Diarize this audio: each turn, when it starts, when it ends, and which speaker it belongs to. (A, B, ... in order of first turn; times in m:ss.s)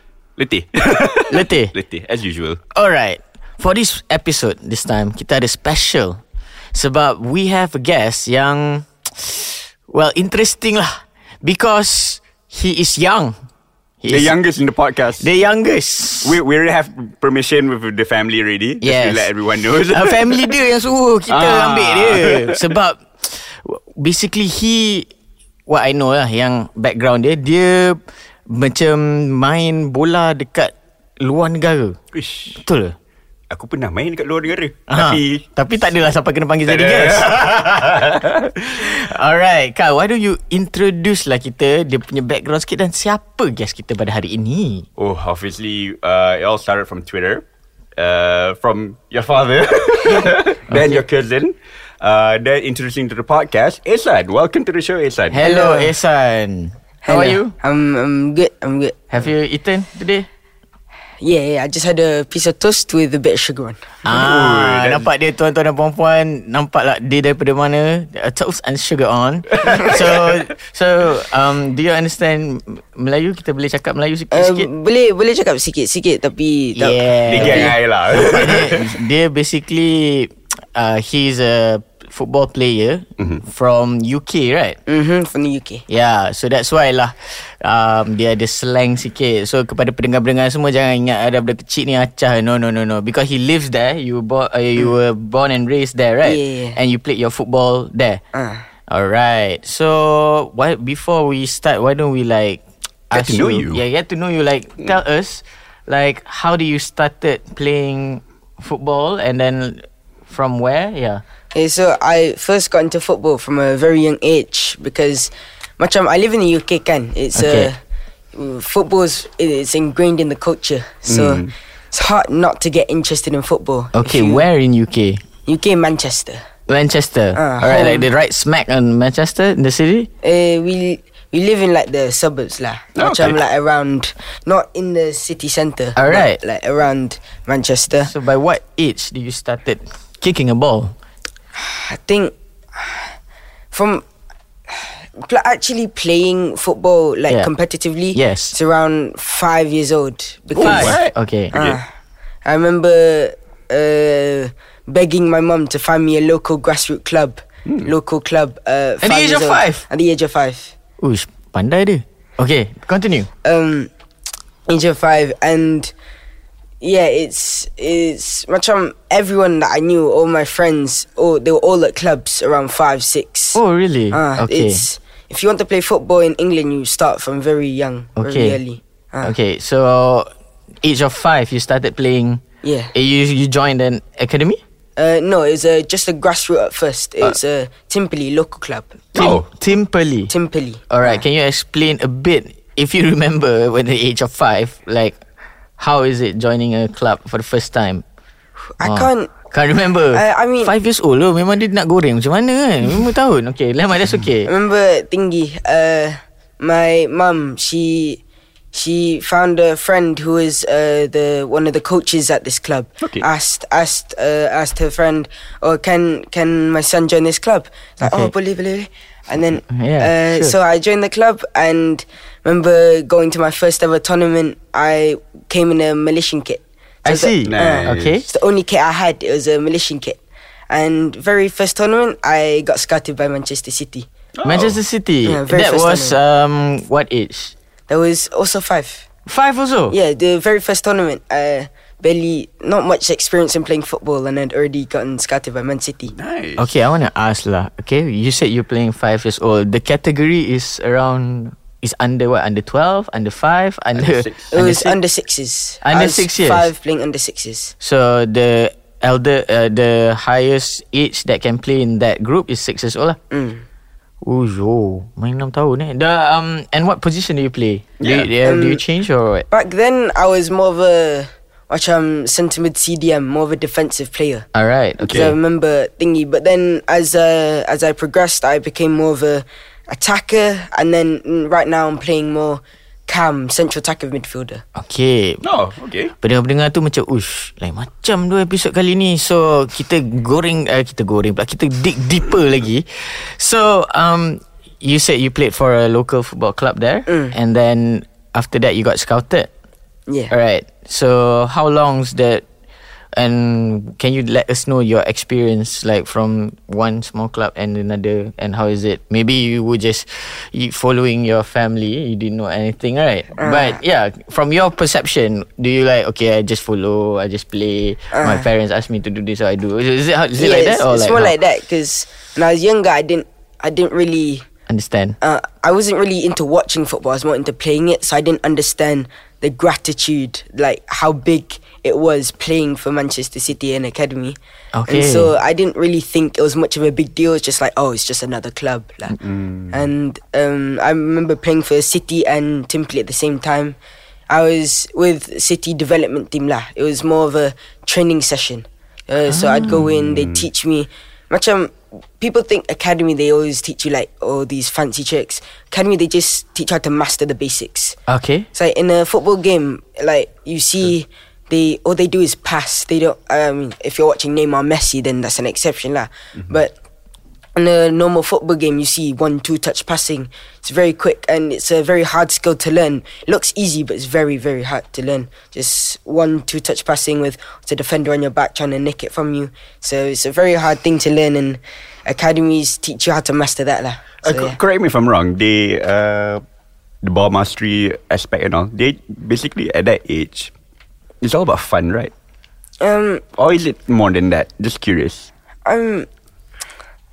0:00.4-0:02.6 A
0:01.3-0:01.7 B
0:02.7-0:06.2 B
0:06.7-0:13.4 B
0:14.0-0:14.4 B
0:14.1-0:15.3 A
0:15.2-0:16.4 B
0:16.2-0:20.6 A
0:18.8-0:25.1 B
0:21.3-0:22.7 A
0:25.7-0:32.0 B
0:32.1-0:32.6 A
0:32.5-0:33.0 B
0:33.5-0:35.5 A
0:34.9-0:44.9 B
0:36.7-0:38.5 A
0:45.0-0:47.4 A
0:48.0-0:55.4 A
0:50.7-0:51.0 B
0:55.3-0:57.6 B
0:55.4-0:55.9 C
0:57.0-0:59.0 C
0:59.1-1:00.3 B
1:01.2-1:03.8 C
1:04.0-1:14.7 B
1:04.1-1:05.1 A
1:09.5-1:10.4 A
1:14.3-1:17.7 C
1:16.8-1:24.8 B
1:17.3-1:19.0 A
1:24.9-1:25.8 C
1:25.9-1:38.2 B
1:36.2-1:36.8 C
1:38.3-1:38.7 C
1:38.9-1:51.2 B
1:43.1-1:43.8 A
1:51.5-1:57.8 C
1:57.4-1:57.7 B
1:58.3-2:04.4 C
2:01.1-2:01.5 A
2:03.9-2:05.2 B
2:05.5-2:06.4 C
2:06.7-2:10.1 B
2:07.4-2:08.1 C
2:10.2-2:18.1 C
2:13.0-2:13.4 A
2:16.0-2:16.4 B
2:18.0-2:21.0 B
2:21.6-2:23.1 C
2:23.7-2:24.0 C
2:24.7-2:31.0 C
2:28.1-2:28.6 B
2:30.6-2:31.8 A
2:30.6-2:31.5 B
2:31.5-2:31.9 C
2:32.4-2:40.8 C
2:37.7-2:37.9 A
2:39.0-2:39.8 B
2:41.0-2:43.3 B
2:43.4-2:43.9 C
2:44.7-2:45.9 C
2:46.8-2:53.6 C
2:53.6-2:54.9 B
2:54.1-2:59.3 C
2:58.2-2:58.6 B
2:59.2-3:00.3 B
3:00.8-3:02.4 B
3:02.6-3:02.9 C
3:02.9-3:04.6 B
3:05.0-3:09.0 C
3:09.1-3:09.5 A
3:09.2-3:10.3 B
3:10.3-3:11.2 C
3:10.9-3:15.2 B
3:15.8-3:18.0 B
3:18.8-3:19.3 C
3:18.8-3:24.5 B
3:20.1-3:20.7 C
3:24.5-3:28.2 C
3:28.7-3:54.1 C
3:33.0-3:33.3 A
3:38.0-3:38.3 B
3:39.7-3:40.6 B
3:47.0-3:48.3 B
3:47.5-3:48.2 A
3:54.4-3:54.8 A
3:54.4-3:57.5 B
3:55.2-3:56.2 C
3:57.9-3:59.1 C
3:59.3-4:00.0 B
3:59.9-4:06.2 C
4:06.1-4:06.7 A
4:06.6-4:15.0 B
4:14.0-4:14.5 A
4:14.5-4:17.7 C
4:15.8-4:16.7 B
4:17.8-4:23.2 B
4:23.3-4:23.6 C
4:24.2-4:29.5 B
4:28.0-4:28.3 A
4:28.4-4:28.8 C
4:29.5-4:34.5 C
4:34.5-4:35.3 B
4:35.0-4:35.3 A
4:35.1-4:44.6 C
4:44.8-4:45.4 B
4:45.4-4:46.1 A
4:46.2-4:59.5 B
4:57.1-4:57.3 C
5:00.1-5:00.3 C
5:00.3-5:02.4 B
5:03.2-5:21.3 B
5:13.4-5:13.8 C
5:18.1-5:18.5 C
5:20.4-5:24.5 C
5:24.7-5:25.2 B
5:25.2-5:34.4 C
5:34.8-5:35.3 B
5:34.9-5:39.2 C
5:39.2-5:39.9 A
5:39.7-5:43.8 C
5:44.3-5:58.0 C
5:49.3-5:49.8 B
5:49.7-5:50.5 A
5:58.1-5:58.5 B
5:58.5-6:06.7 C
6:07.6-6:24.6 C
6:24.2-6:26.4 A
6:27.0-6:30.5 A
6:31.2-6:32.1 A
6:32.8-6:33.2 C
6:33.4-6:35.3 A
6:35.7-6:36.1 C